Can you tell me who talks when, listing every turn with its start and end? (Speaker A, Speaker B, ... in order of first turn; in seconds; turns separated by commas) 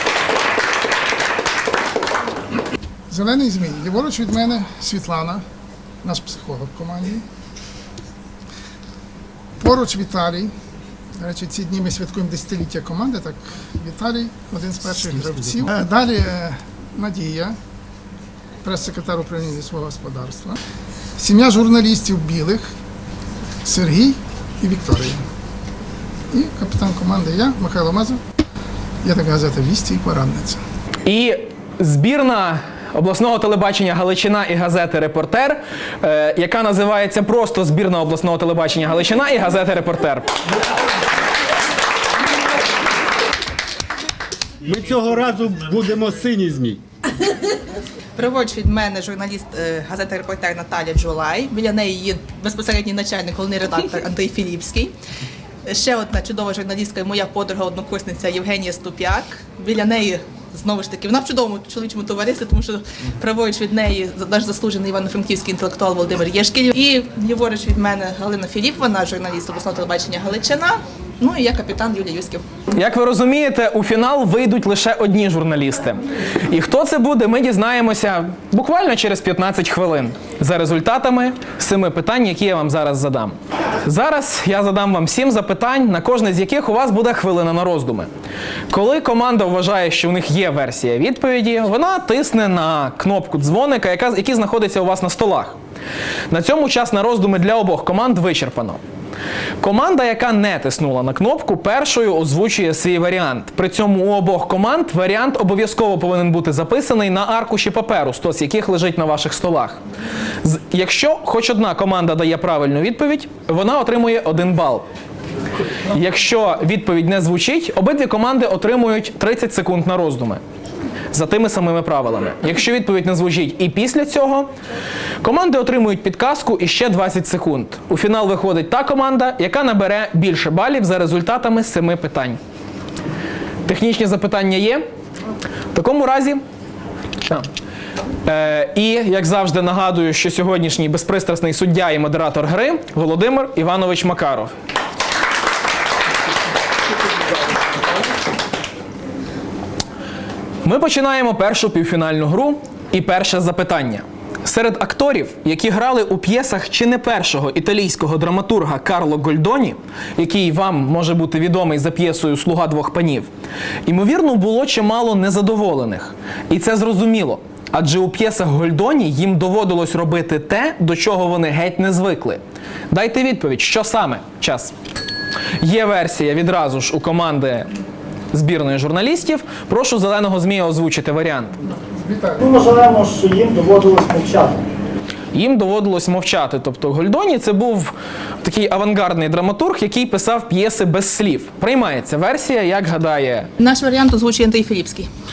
Speaker A: 3.1-5.4, Speaker A: 6.0-7.2, Speaker A: 9.6-10.5, Speaker A: 11.2-17.6, Speaker A: 18.6-20.6, Speaker A: 21.2-22.7, Speaker A: 23.6-25.2, Speaker A: 26.3-28.2, Speaker A: 29.0-30.6, Speaker B: 31.0-40.3, Speaker C: 44.6-46.8, Speaker D: 48.1-54.9, Speaker D: 55.6-72.4, Speaker B: 72.7-88.1, Speaker B: 88.7-95.6, Speaker B: 96.3-98.8, Speaker B: 99.6-109.8, Speaker B: 110.4-114.8, Speaker B: 115.9-120.4, Speaker B: 121.1-124.5, Speaker B: 125.2-132.4, Speaker B: 133.7-134.8, Speaker B: 135.7-136.4, Speaker B: 138.2-144.5, Speaker B: 150.6-163.3, Speaker B: 163.8-174.7, Speaker B: 175.6-177.7, Speaker B: 178.3-181.6, Speaker A: 182.0-182.4, Speaker E: 182.4-184.6, Speaker B: 185.3-193.5, Speaker D: 193.6-195.1